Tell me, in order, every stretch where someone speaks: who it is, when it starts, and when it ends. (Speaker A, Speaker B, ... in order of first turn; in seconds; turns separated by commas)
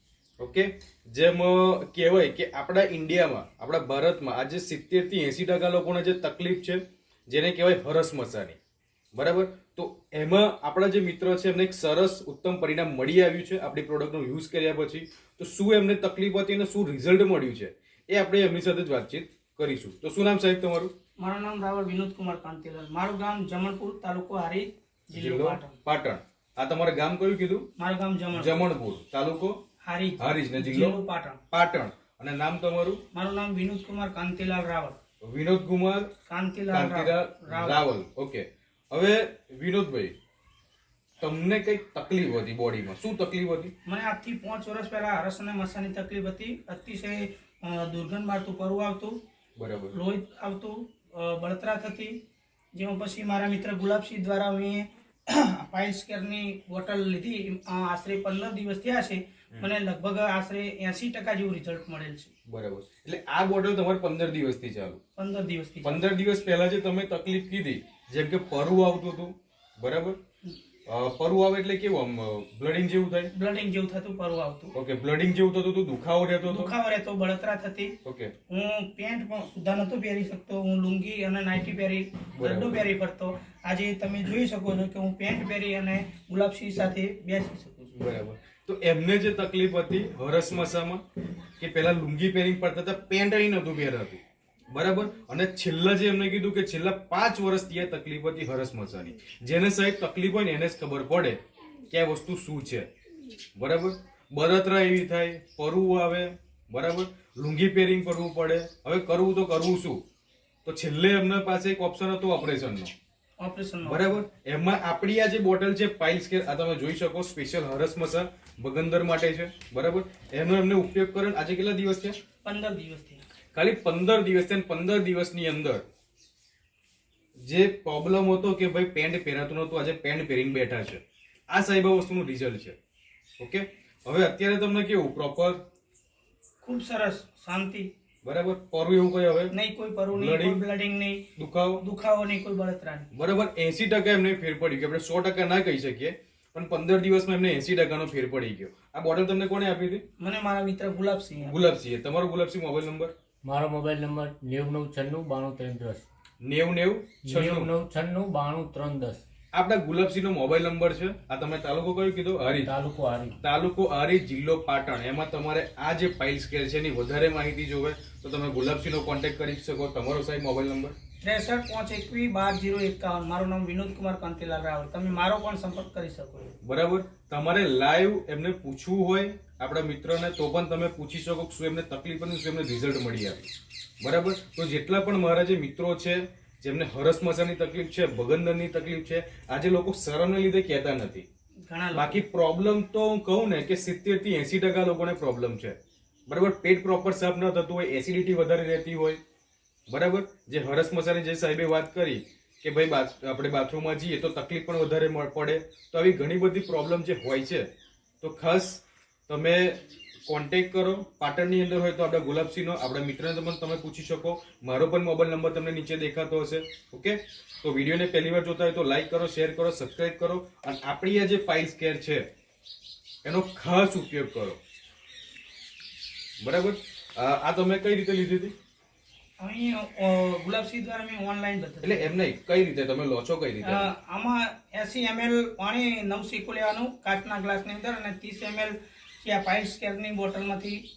Speaker A: 0.4-8.6, Speaker A: 9.1-20.9, Speaker B: 21.2-25.8, Speaker A: 25.1-27.7, Speaker B: 27.8-28.7, Speaker A: 28.3-29.6, Speaker B: 29.8-31.4, Speaker A: 30.2-31.0, Speaker A: 31.5-33.0, Speaker B: 33.1-35.0, Speaker A: 35.2-36.1, Speaker B: 36.3-37.9, Speaker A: 36.7-40.1, Speaker A: 41.2-43.7, Speaker B: 43.9-49.1, Speaker A: 49.6-50.0, Speaker B: 49.9-52.1, Speaker B: 52.8-62.3, Speaker A: 62.5-65.0, Speaker B: 65.2-66.0, Speaker A: 65.8-70.2, Speaker A: 70.9-73.3, Speaker B: 73.3-74.7, Speaker A: 74.8-76.8, Speaker B: 76.5-78.0, Speaker A: 78.0-78.3, Speaker B: 78.5-88.0, Speaker A: 82.3-82.8, Speaker A: 88.0-91.0, Speaker A: 91.6-94.2, Speaker A: 94.7-101.4, Speaker A: 101.9-102.9, Speaker A: 103.6-110.0, Speaker A: 110.7-112.9, Speaker B: 113.4-114.2, Speaker A: 113.8-122.2, Speaker B: 122.4-123.2, Speaker A: 123.5-125.8, Speaker A: 127.5-132.8, Speaker A: 133.4-135.6, Speaker B: 136.6-137.9, Speaker A: 138.2-139.5, Speaker B: 139.5-141.2, Speaker A: 140.1-140.6, Speaker A: 141.4-141.8, Speaker B: 141.8-143.1, Speaker A: 143.1-150.0, Speaker B: 150.2-151.7, Speaker A: 151.4-153.1, Speaker C: 153.4-156.1, Speaker A: 156.4-157.7, Speaker C: 157.2-159.2, Speaker A: 159.5-162.7, Speaker C: 162.6-163.4, Speaker A: 163.4-170.9, Speaker B: 171.2-176.6, Speaker A: 176.6-183.5, Speaker A: 184.0-191.2, Speaker B: 191.7-192.2, Speaker A: 191.9-199.2, Speaker A: 199.9-207.7, Speaker A: 208.2-222.3, Speaker A: 223.2-224.6, Speaker A: 226.4-228.5, Speaker B: 229.4-232.1, Speaker A: 231.8-233.9, Speaker B: 233.6-240.8